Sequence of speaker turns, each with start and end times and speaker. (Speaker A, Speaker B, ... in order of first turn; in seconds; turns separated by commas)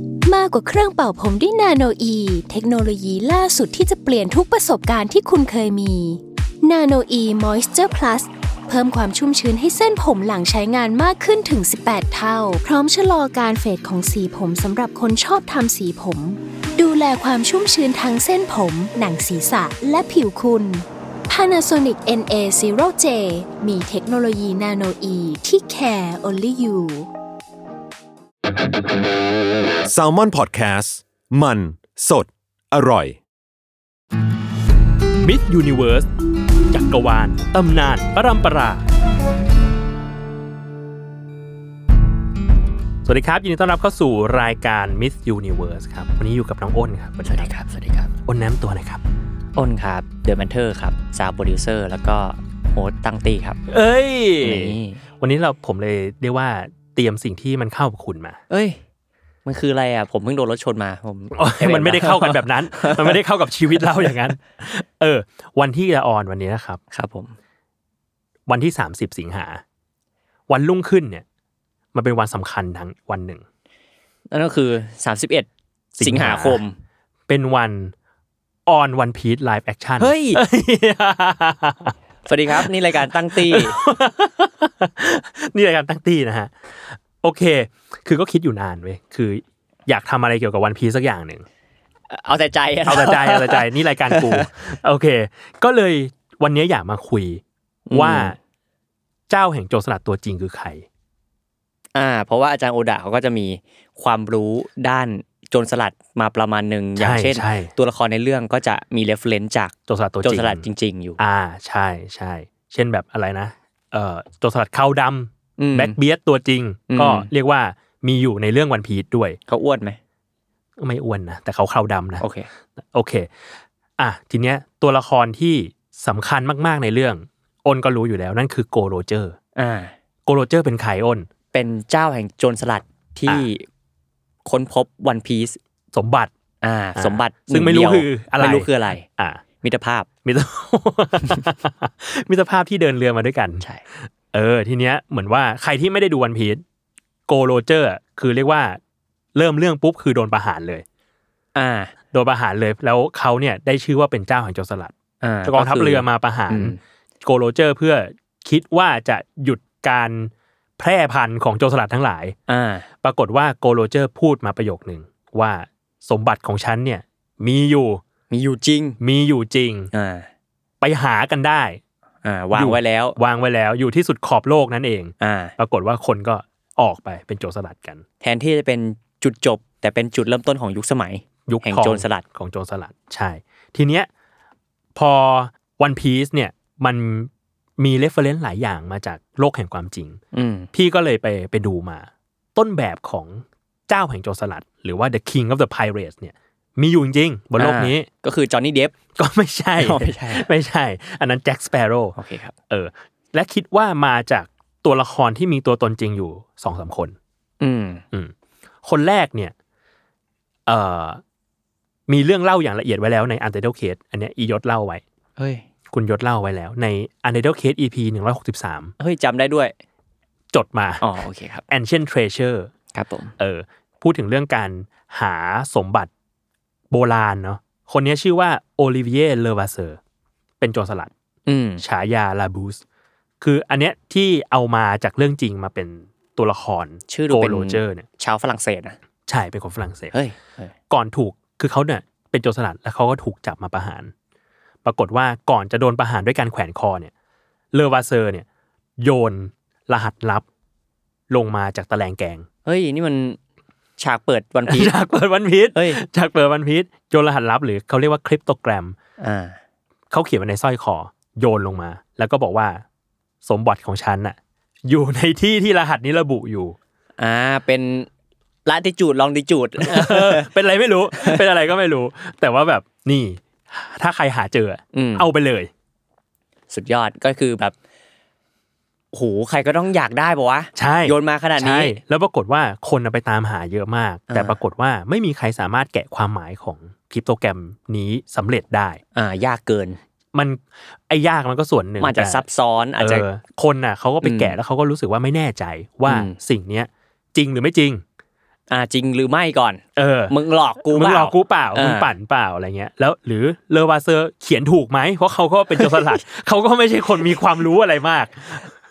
Speaker A: 0.2-27.1, Speaker B: 29.9-33.2, Speaker C: 35.2-36.1, Speaker C: 36.7-38.8, Speaker C: 43.0-47.5, Speaker D: 47.2-48.1, Speaker C: 48.2-49.0, Speaker D: 49.5-53.6, Speaker C: 53.7-58.4, Speaker D: 54.4-55.0, Speaker D: 58.5-58.8, Speaker D: 59.4-63.2, Speaker C: 61.3-66.8, Speaker D: 66.9-67.3, Speaker C: 68.5-69.6, Speaker C: 70.5-71.2, Speaker C: 71.9-73.4, Speaker D: 74.3-75.5, Speaker C: 76.0-76.6, Speaker D: 76.0-76.8, Speaker C: 77.3-77.9, Speaker C: 78.7-81.9, Speaker D: 80.0-80.4, Speaker D: 82.2-83.8, Speaker C: 82.5-91.5, Speaker D: 92.1-94.5, Speaker C: 92.9-98.3, Speaker D: 97.9-98.3, Speaker C: 99.3-100.8, Speaker D: 101.9-111.2, Speaker C: 107.0-107.7, Speaker C: 109.9-110.6, Speaker C: 111.2-119.4, Speaker D: 115.6-116.0, Speaker D: 116.9-117.3, Speaker D: 119.5-120.0, Speaker C: 120.8-122.2, Speaker D: 122.2-122.5, Speaker C: 122.8-123.3, Speaker C: 124.0-129.4, Speaker D: 129.6-129.9, Speaker C: 130.2-131.3, Speaker D: 131.5-133.7, Speaker D: 134.4-135.6, Speaker C: 135.9-136.3, Speaker D: 136.6-139.1, Speaker C: 136.9-139.4, Speaker D: 139.6-140.1, Speaker C: 140.2-146.6, Speaker C: 147.3-148.8, Speaker C: 149.3-150.8, Speaker D: 151.5-151.9, Speaker C: 152.1-154.9, Speaker D: 155.2-156.8, Speaker C: 155.4-162.3, Speaker D: 162.5-162.9, Speaker C: 163.0-168.0, Speaker D: 168.3-169.0, Speaker C: 169.0-169.9, Speaker D: 169.9-170.3, Speaker C: 170.8-171.8, Speaker D: 172.2-173.2, Speaker C: 172.5-178.0, Speaker D: 175.2-175.5, Speaker D: 178.2-182.2, Speaker C: 181.5-184.1, Speaker C: 184.9-190.2, Speaker D: 190.3-190.7, Speaker C: 190.7-198.1, Speaker D: 197.6-198.9, Speaker C: 199.2-202.2, Speaker D: 199.8-200.5, Speaker D: 202.2-202.5, Speaker C: 202.7-207.2, Speaker D: 207.6-208.0, Speaker C: 208.1-209.5, Speaker C: 210.7-211.2, Speaker C: 212.1-215.0, Speaker D: 215.4-215.6, Speaker C: 215.9-218.9, Speaker D: 219.0-219.7, Speaker C: 220.5-221.0, Speaker D: 221.0-221.6, Speaker C: 221.7-222.7, Speaker D: 222.9-223.3, Speaker C: 223.4-226.1, Speaker C: 226.9-230.0, Speaker C: 230.6-231.1, Speaker D: 231.4-231.8, Speaker C: 231.8-232.8, Speaker C: 233.4-238.1, Speaker D: 237.1-239.0, Speaker C: 239.3-240.1, Speaker D: 240.1-240.7, Speaker C: 240.9-244.1, Speaker C: 244.8-247.1, Speaker C: 247.7-248.4, Speaker C: 249.0-250.4, Speaker C: 251.3-252.5, Speaker D: 252.6-253.4, Speaker D: 254.0-254.9, Speaker C: 254.7-258.9, Speaker D: 255.7-256.0, Speaker D: 259.2-259.6, Speaker C: 260.1-262.8, Speaker C: 263.4-266.8, Speaker D: 267.2-268.1, Speaker D: 268.6-270.5, Speaker C: 269.8-275.7, Speaker D: 271.1-271.4, Speaker D: 274.9-275.3, Speaker D: 276.7-277.7, Speaker D: 279.1-282.0, Speaker C: 280.8-289.0, Speaker D: 284.3-284.6, Speaker D: 289.1-290.0, Speaker C: 290.3-292.4, Speaker D: 292.0-293.2, Speaker C: 293.0-298.0, Speaker D: 294.2-294.5, Speaker D: 296.1-296.4, Speaker D: 298.7-302.1, Speaker C: 299.9-300.3, Speaker C: 300.9-308.7, Speaker D: 305.8-306.2